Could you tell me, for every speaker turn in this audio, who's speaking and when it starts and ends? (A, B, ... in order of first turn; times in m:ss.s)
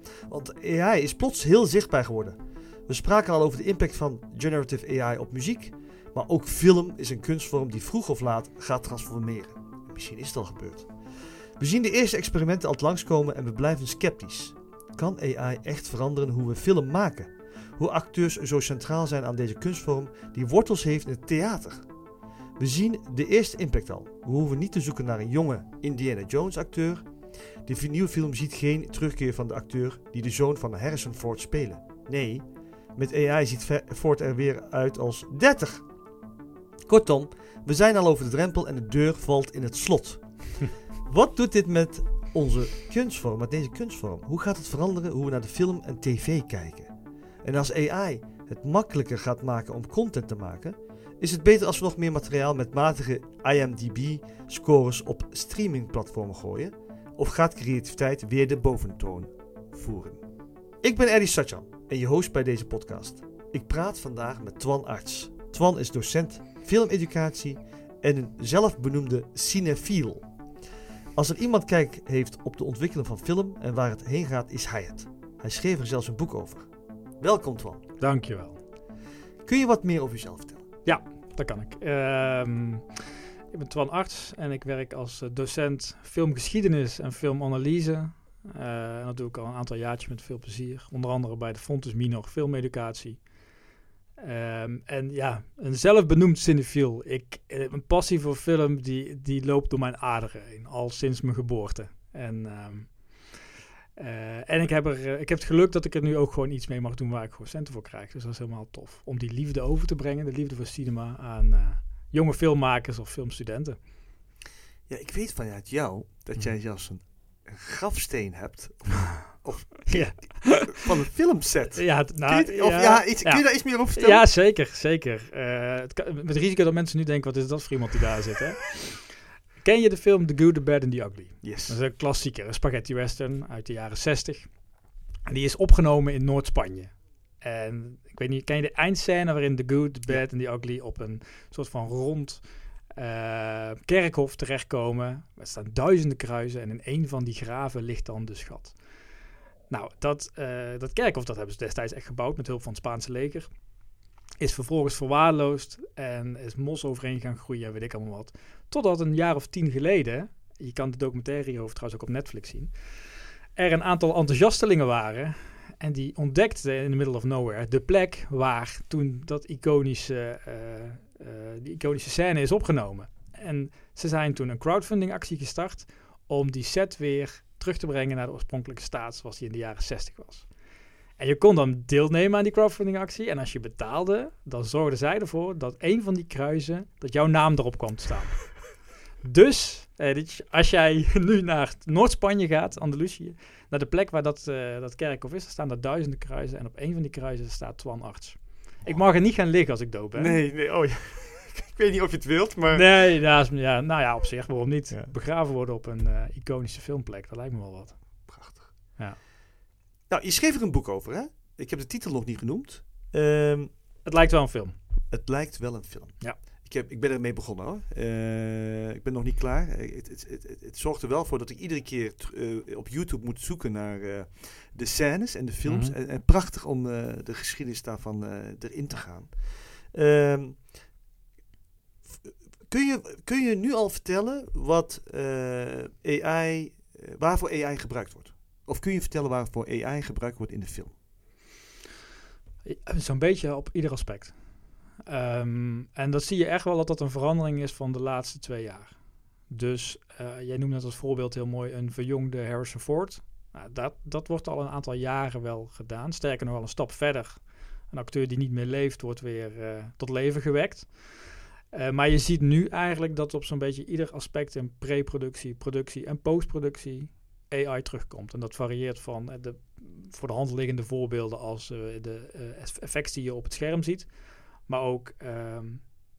0:00.3-0:21.8 A
0:22.6-0:27.1 A
0:27.6-0:35.8 A
0:36.8-0:46.9 A
0:47.4-1:00.2 A
1:00.8-1:10.3 A
1:11.1-1:17.8 A
1:18.0-1:18.6 B
1:19.4-1:20.7 A
1:20.8-1:33.2 B
1:34.2-1:43.4 B
1:44.0-1:53.8 B
1:54.9-2:04.2 A
1:59.9-2:00.9 B
2:01.7-2:09.1 B
2:09.6-2:14.5 B
2:11.4-2:11.8 A
2:15.2-2:22.4 B
2:22.9-2:28.8 B
2:29.7-2:33.5 B
2:34.4-2:43.0 B
2:43.5-3:00.5 B
3:01.2-3:20.4 B
3:18.8-3:19.1 A
3:20.1-3:22.9 A
3:22.7-3:28.3 B
3:24.9-3:25.1 A
3:28.3-3:28.7 A
3:30.1-3:33.7 A
3:34.0-3:34.7 B
3:35.1-3:50.7 A
3:45.6-3:45.9 B
3:52.1-4:00.9 A
4:02.6-4:04.4 B
4:05.0-4:08.9 B
4:09.5-4:36.0 B